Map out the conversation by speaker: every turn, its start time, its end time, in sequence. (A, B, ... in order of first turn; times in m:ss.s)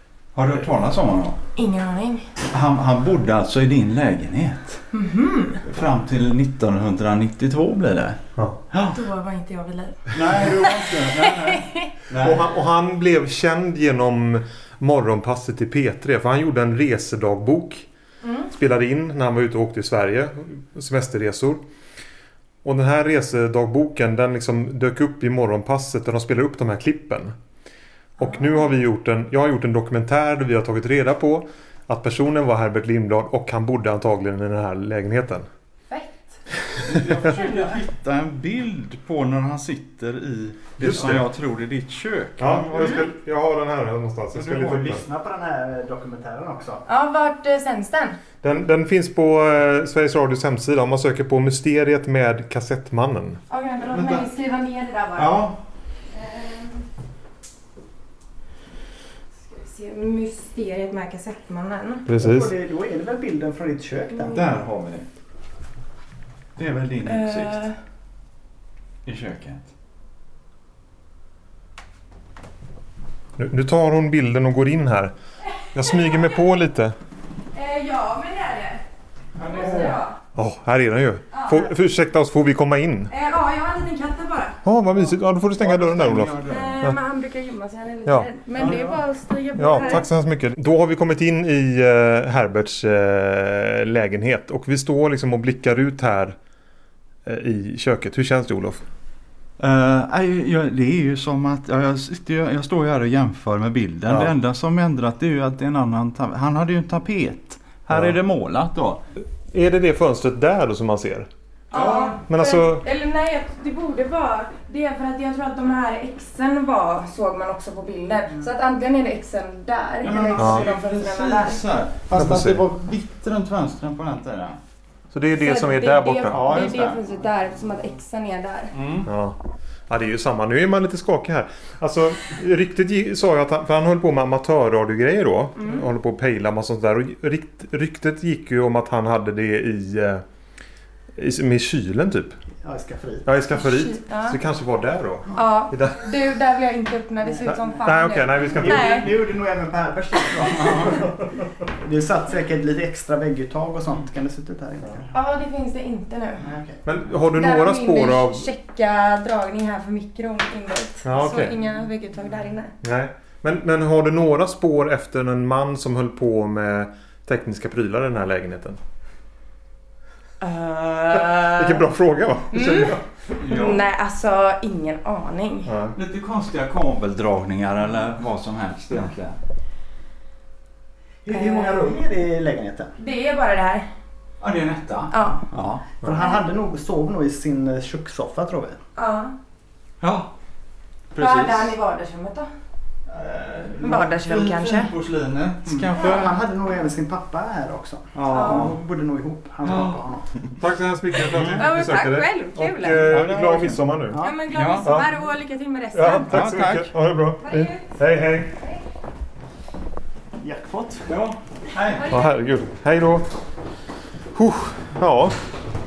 0:00.3-0:01.4 A
0:01.6-0:02.3 B
0:02.5-0:04.8 A
0:04.9-0:05.6 B
0:05.6-0:08.2 A
0:08.7-0:09.0 A
0:08.9-0:11.8 B
0:10.1-0:12.4 A
0:12.1-0:17.9 C
0:18.2-0:18.5 B
0:18.5-0:21.6 C
0:22.6-0:27.3 C
0:28.2-0:35.5 C
0:28.2-0:28.7 B
0:35.9-0:36.3 B
0:36.8-0:43.1 A
0:40.8-0:41.3 C
0:42.4-0:45.0 C
0:44.3-0:44.9 A
0:44.7-0:46.8 D
0:46.9-0:48.2 B
0:48.4-0:53.4 C
0:53.5-0:55.4 B
0:53.9-0:54.2 A
0:55.2-0:55.6 A
0:56.2-0:56.8 B
0:59.5-1:02.1 B
1:02.1-1:02.5 C
1:02.2-1:04.4 D
1:04.3-1:05.1 A
1:06.6-1:07.7 A
1:07.0-1:07.8 B
1:09.1-1:09.7 A
1:13.4-1:15.1 C
1:15.7-1:16.9 C
1:15.9-1:16.2 B
1:17.5-1:18.8 B
1:19.4-1:20.0 A
1:19.4-1:20.2 B
1:20.4-1:23.1 C
1:21.3-1:21.7 B
1:23.1-1:24.6 B
1:24.6-1:27.0 C
1:25.0-1:26.8 A
1:26.5-1:30.1 B
1:28.6-1:29.0 A
1:29.6-1:36.4 C
1:29.7-1:30.0 A
1:37.3-1:38.8 C
1:39.6-1:49.0 A
1:47.9-1:48.2 C
1:49.5-1:51.3 C
1:51.7-2:01.7 B
1:51.7-1:52.2 A
1:52.3-1:52.8 C
2:00.0-2:04.6 A
2:00.4-2:00.7 C
2:02.1-2:02.6 C
2:05.1-2:06.8 C
2:05.3-2:08.7 B
2:06.3-2:07.0 A
2:08.7-2:09.1 A
2:09.0-2:09.4 C
2:09.9-2:20.2 C
2:15.6-2:15.9 B
2:21.2-2:22.4 C
2:22.6-2:23.3 D
2:23.2-2:26.1 C
2:23.5-2:24.4 B
2:25.4-2:29.1 B
2:27.3-2:27.5 D
2:27.5-2:29.1 C
2:28.6-2:35.1 D
2:35.1-2:36.4 B
2:36.4-2:36.8 D
2:36.8-2:38.5 C
2:37.4-2:42.7 B
2:41.0-2:41.6 C
2:42.8-2:48.8 C
2:50.4-2:51.8 B
2:51.4-2:53.2 C
2:52.5-2:55.7 B
2:53.4-2:53.8 A
2:55.6-2:56.0 C
2:55.9-2:59.4 A
3:01.2-3:02.9 D
3:01.3-3:02.0 B
3:03.0-3:03.9 B
3:04.4-3:05.8 A
3:05.1-3:05.4 B
3:06.0-3:08.8 D
3:06.2-3:06.4 B
3:09.0-3:09.4 B
3:10.0-3:10.3 A
3:11.1-3:12.5 B
3:11.2-3:11.7 A
3:13.1-3:16.4 A
3:13.8-3:14.9 B
3:15.7-3:20.3 D
3:18.2-3:18.8 A
3:18.3-3:18.7 B
3:19.6-3:20.0 A
3:20.6-3:24.2 C
3:21.5-3:23.2 B
3:23.0-3:23.8 A
3:24.2-3:26.4 B
3:24.5-3:24.9 A
3:24.8-3:25.1 C
3:25.9-3:28.6 C
3:26.2-3:26.9 A
3:27.4-3:27.8 B
3:30.4-3:31.1 D
3:31.1-3:32.2 A
3:32.0-3:32.2 B
3:32.0-3:33.3 C
3:34.4-3:35.4 C